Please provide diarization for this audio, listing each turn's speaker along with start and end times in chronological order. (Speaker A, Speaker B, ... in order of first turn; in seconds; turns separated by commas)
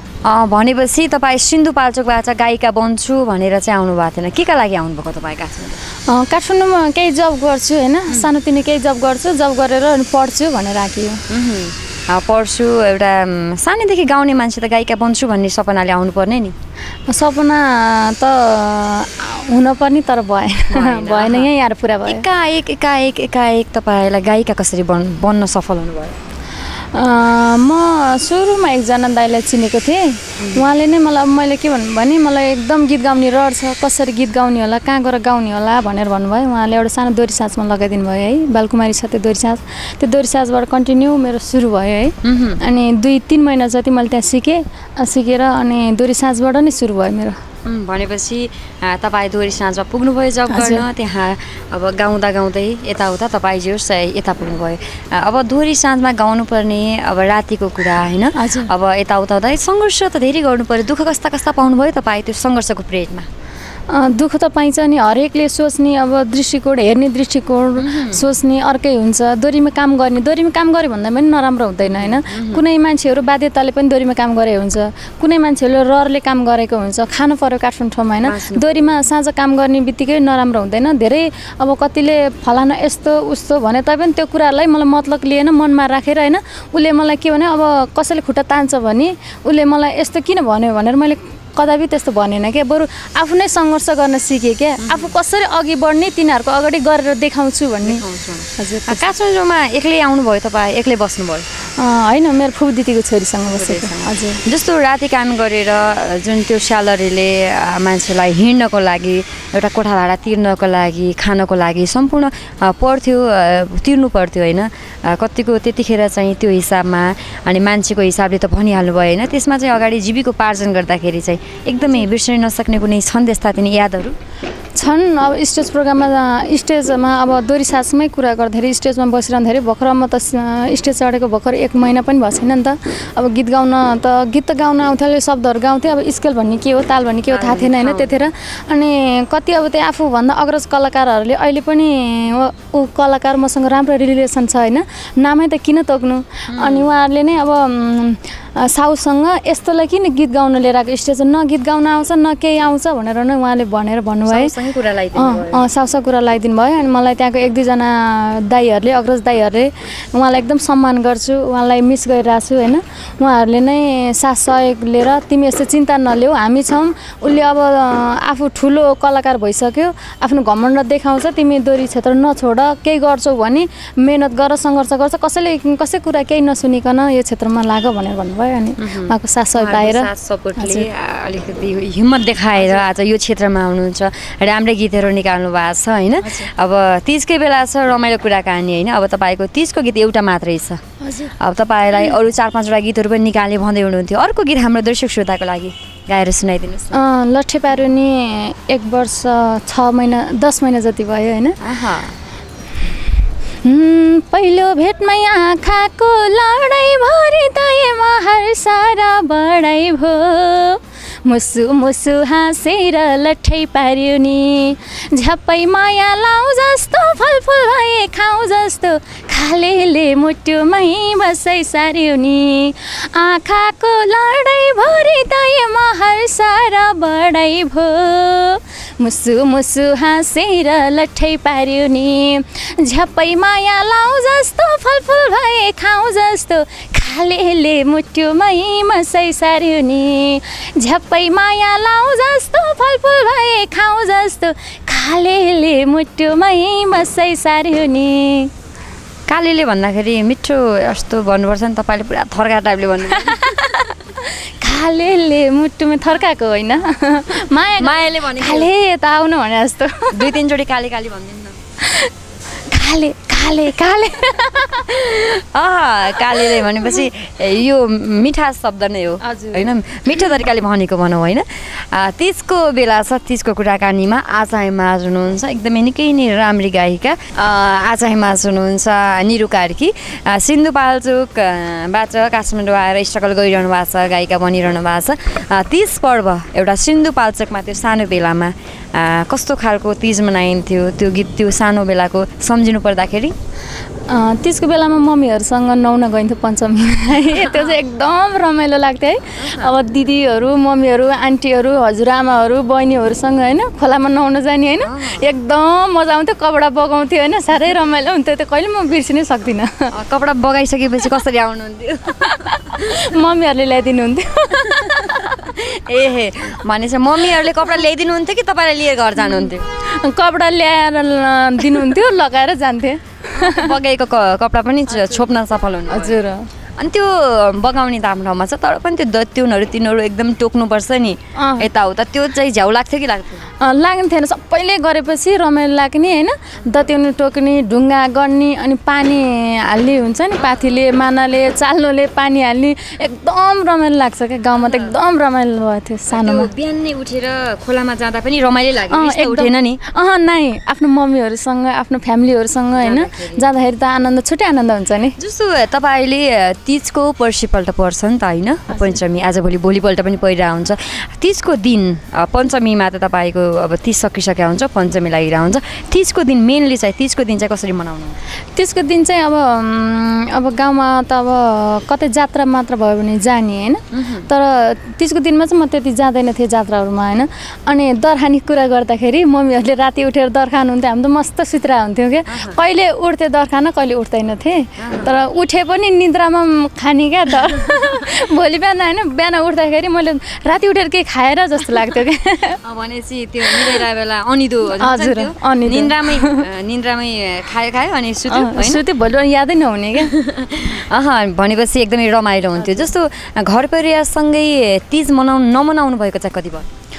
Speaker A: 0.2-5.8, Speaker B: 6.1-11.2, Speaker A: 11.3-16.6, Speaker B: 17.1-22.2, Speaker A: 20.7-21.5, Speaker A: 22.1-26.2, Speaker B: 26.9-47.4, Speaker A: 30.4-30.7, Speaker A: 42.2-42.6, Speaker A: 47.6-63.3, Speaker B: 50.5-50.9, Speaker B: 58.4-58.7, Speaker B: 63.9-98.0, Speaker A: 67.8-68.2, Speaker A: 71.8-72.6, Speaker A: 78.2-78.8, Speaker A: 94.8-95.1, Speaker A: 97.8-101.5, Speaker B: 98.6-99.0, Speaker B: 101.8-104.4, Speaker A: 103.5-124.2, Speaker B: 124.8-154.5, Speaker A: 137.3-138.3, Speaker A: 146.5-146.9, Speaker A: 154.3-155.7, Speaker B: 155.2-180.9, Speaker A: 178.8-190.8, Speaker B: 182.6-182.8, Speaker B: 186.2-186.5, Speaker B: 191.0-191.3, Speaker A: 191.4-197.0, Speaker B: 196.9-201.6, Speaker A: 201.6-202.2, Speaker B: 203.6-248.5, Speaker A: 249.3-253.6, Speaker B: 253.1-260.3, Speaker A: 257.8-258.7, Speaker A: 260.1-261.6, Speaker B: 261.8-262.1, Speaker B: 262.7-265.0, Speaker A: 264.8-293.4, Speaker B: 266.2-266.8, Speaker B: 269.2-269.7, Speaker B: 294.1-309.9, Speaker A: 297.2-297.7, Speaker A: 299.4-299.7, Speaker A: 304.8-305.2, Speaker A: 309.9-313.1, Speaker B: 312.7-315.1, Speaker A: 314.5-319.6, Speaker B: 319.2-323.8, Speaker A: 323.3-326.2, Speaker B: 324.9-325.2, Speaker B: 325.9-326.5, Speaker A: 326.8-333.5, Speaker B: 331.4-331.7, Speaker B: 333.6-346.5, Speaker A: 340.5-340.8, Speaker A: 344.6-344.9, Speaker A: 346.1-349.8, Speaker B: 348.9-355.2, Speaker A: 352.8-353.4, Speaker A: 355.2-368.2, Speaker B: 358.7-359.0, Speaker B: 368.6-392.6, Speaker A: 373.9-374.3, Speaker A: 382.3-382.6, Speaker A: 384.8-385.1, Speaker A: 387.4-388.1, Speaker A: 392.6-398.9, Speaker B: 393.5-393.8, Speaker B: 394.8-396.4, Speaker B: 398.3-400.2, Speaker A: 400.0-406.7, Speaker B: 402.6-402.9